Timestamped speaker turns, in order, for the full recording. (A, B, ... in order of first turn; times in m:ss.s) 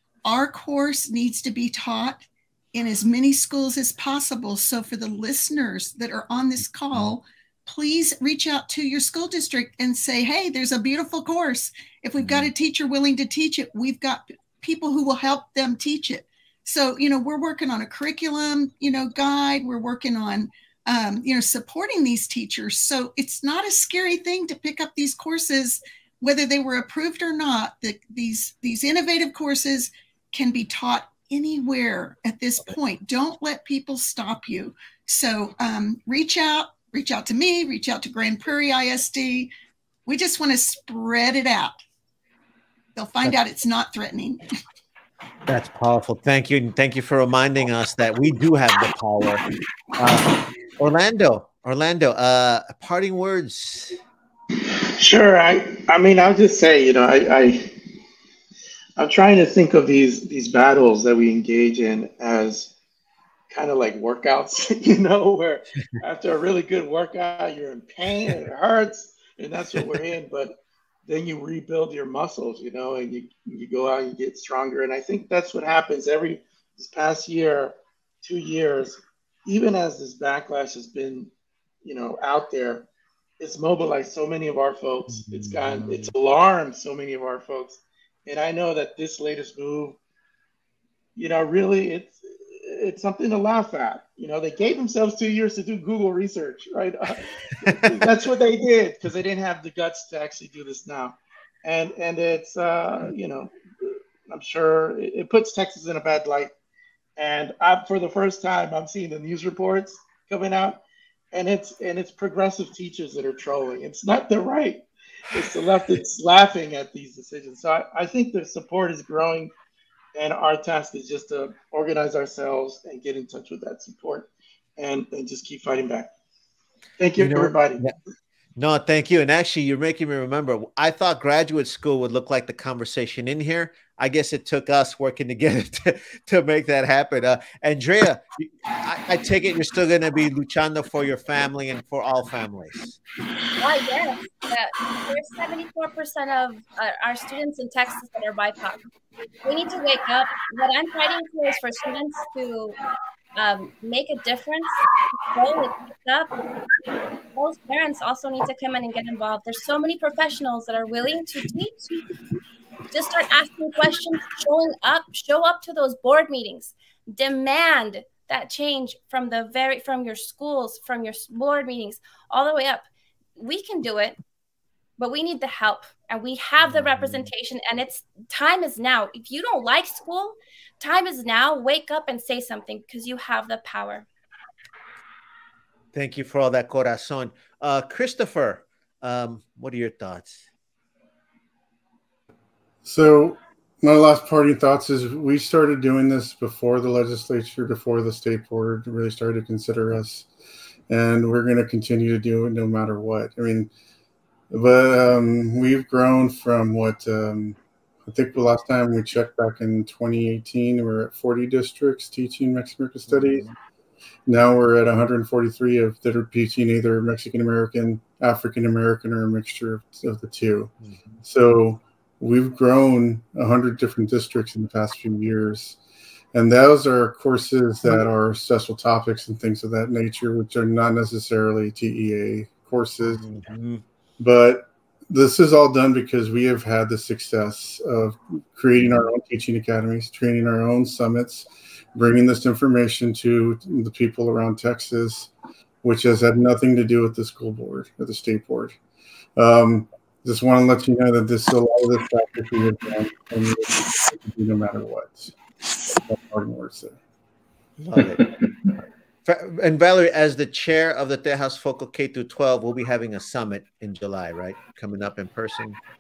0:00.2-0:39.5 A
0:12.2-0:12.5 B
0:40.1-0:41.8 A
0:43.0-0:44.4 A
0:45.5-0:49.4 B
0:50.0-0:54.0 B
0:55.0-0:57.7 C
0:59.0-1:02.7 C
1:03.5-1:21.3 C
1:21.8-1:22.9 C
1:23.4-1:30.0 C
1:25.1-1:26.1 B
1:31.2-1:46.5 C
1:37.6-1:38.1 B
1:47.2-1:59.5 C
2:00.2-2:06.1 C
2:07.0-2:07.9 C
2:07.2-2:07.9 B
2:08.6-2:23.0 B
2:23.6-2:28.8 D
2:29.4-2:32.8 D
2:33.4-2:36.3 D
2:37.4-2:42.0 D
2:42.9-2:52.8 D
2:53.4-2:54.2 D
2:55.0-3:04.1 D
2:56.6-2:57.3 B
3:05.9-3:10.4 B
3:12.8-3:20.3 E
3:20.9-3:23.7 E
3:24.5-3:33.5 E
3:33.1-3:33.5 B
3:34.3-3:40.7 E
3:40.8-3:41.2 B
3:41.2-3:45.8 E
3:46.3-3:53.3 E
3:53.1-3:53.8 B
3:54.2-4:05.3 E
3:58.8-3:59.1 B
4:05.8-4:08.8 E
4:09.4-4:15.3 E
4:15.9-4:17.0 E
4:17.8-4:18.3 B
4:19.2-4:25.8 B